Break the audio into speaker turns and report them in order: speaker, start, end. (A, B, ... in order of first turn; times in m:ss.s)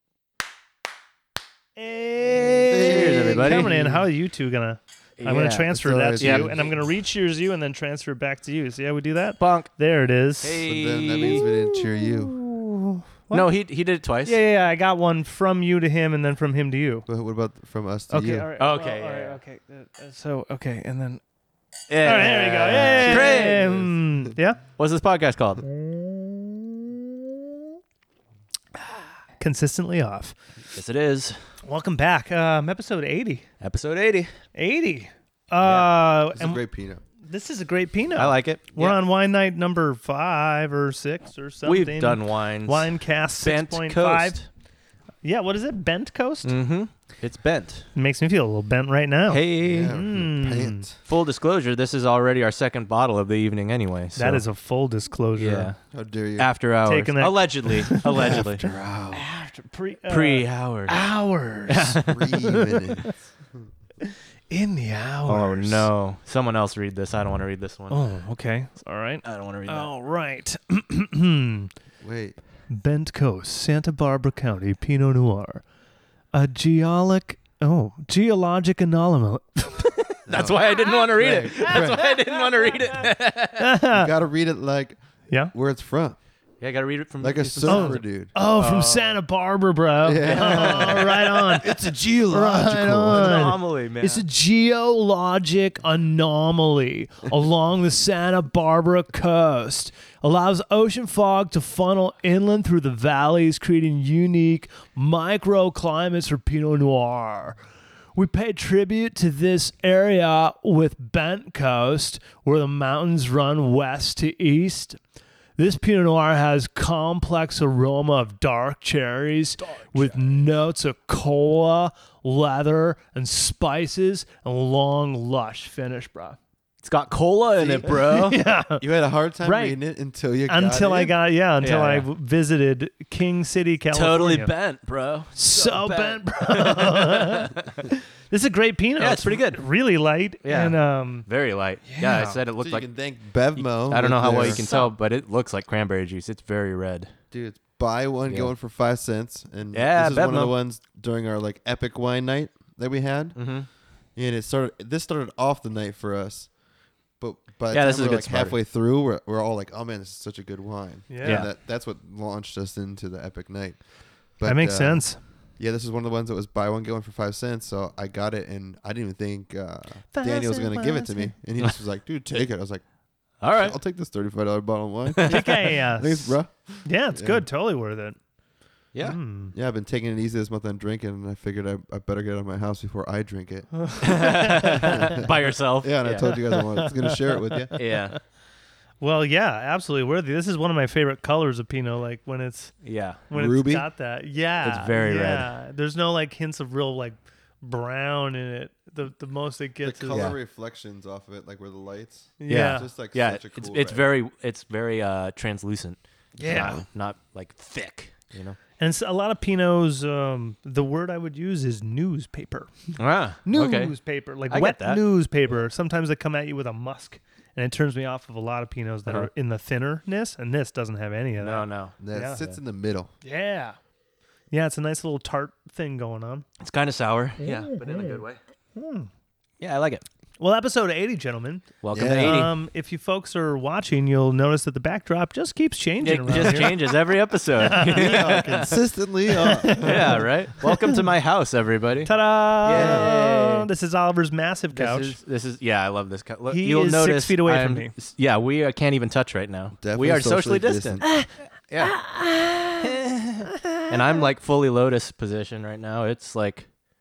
0:01.8-0:10.6 A
0:02.7-0:04.0 B
0:02.7-0:03.7 C
0:05.2-0:06.5 C
0:05.7-0:06.7 B
0:09.4-0:09.7 C
0:10.4-0:11.4 C
0:10.6-0:12.4 B
0:11.3-0:13.6 A
0:13.3-0:14.4 C
0:14.2-0:17.1 A
0:17.1-0:18.5 B
0:18.1-0:21.2 A
0:18.6-0:19.4 C
0:21.9-0:23.9 C
0:22.0-0:24.6 A
0:23.0-0:23.9 B
0:24.8-0:25.6 C
0:29.4-0:30.4 A
0:30.7-0:31.4 C
0:31.6-0:33.5 A
0:33.6-0:34.3 C
0:34.6-0:36.6 A
0:35.6-0:35.9 C
0:36.3-0:37.0 B
0:37.2-0:44.4 A
0:38.2-0:39.0 C
0:41.6-0:44.4 C
0:45.2-0:46.5 A
0:46.4-0:47.9 C
0:48.0-0:50.8 A
0:49.3-0:50.0 C
0:49.6-0:51.0 B
0:51.1-0:54.4 C
0:54.2-0:55.7 A
0:55.4-0:55.8 C
0:55.9-0:56.5 B
0:56.4-0:58.6 C
0:56.8-1:03.1 A
0:58.2-0:59.2 B
1:00.1-1:01.0 C
1:01.7-1:02.3 C
1:02.1-1:03.7 B
1:04.5-1:05.9 A
1:05.3-1:08.0 C
1:07.9-1:11.7 A
1:09.2-1:09.9 C
1:12.0-1:12.4 B
1:12.7-1:15.6 A
1:16.3-1:20.1 A
1:20.3-1:23.6 C
1:20.3-1:22.2 B
1:23.6-1:24.1 A
1:23.9-1:26.2 B
1:26.6-1:29.2 C
1:27.2-1:28.3 B
1:27.7-1:31.7 A
1:30.0-1:33.6 B
1:30.2-1:31.6 C
1:32.3-1:55.0 A
1:33.1-1:34.2 C
1:55.6-2:06.4 A
2:06.8-2:08.4 C
2:07.6-2:07.9 B
2:07.8-2:08.8 A
2:08.8-2:11.2 B
2:09.4-2:09.8 A
2:10.5-2:14.5 A
2:11.6-2:12.1 C
2:13.9-2:17.7 C
2:15.3-2:21.3 A
2:19.0-2:19.7 C
2:20.4-2:22.9 C
2:21.8-2:22.4 A
2:22.6-2:24.6 B
2:23.6-2:27.1 C
2:24.4-2:24.9 A
2:27.3-2:33.6 B
2:29.7-2:30.5 C
2:33.4-2:33.7 C
2:34.1-2:36.6 B
2:37.2-2:57.4 B
2:37.7-2:38.6 C
2:41.1-2:41.5 A
2:41.2-2:41.5 C
2:44.4-2:45.2 A
2:50.1-2:51.3 A
2:53.4-2:53.8 C
2:55.2-2:58.2 A
2:59.0-2:59.5 A
2:59.0-3:07.8 B
3:03.8-3:04.9 A
3:04.0-3:06.5 C
3:06.5-3:07.2 A
3:07.7-3:08.0 A
3:07.8-3:08.2 C
3:09.0-3:20.2 A
3:12.8-3:13.2 C
3:13.3-3:13.9 B
3:14.6-3:15.5 C
3:19.8-3:24.1 B
3:20.1-3:20.4 C
3:22.4-3:22.9 A
3:22.5-3:28.6 C
3:26.4-3:26.8 A
3:26.4-3:26.8 B
3:28.8-3:42.4 A
3:33.0-3:35.0 C
3:41.4-3:42.0 C
3:42.0-3:43.1 B
3:43.2-3:43.8 A
3:44.5-3:46.5 A
3:46.6-3:48.4 C
3:48.8-3:49.1 A
3:49.6-3:50.0 C
3:50.4-3:57.0 A
3:51.8-3:52.5 C
3:51.9-3:52.5 B
3:56.0-3:58.8 C
3:57.6-4:00.8 A
3:57.9-4:00.2 B
3:59.8-4:03.7 C
4:02.1-4:05.2 A
4:02.7-4:03.1 B
4:04.7-4:11.1 C
4:06.5-4:07.9 A
4:09.8-4:11.1 B
4:11.0-4:11.3 A
4:11.7-4:12.1 C
4:11.8-4:12.9 A
4:12.8-4:16.7 C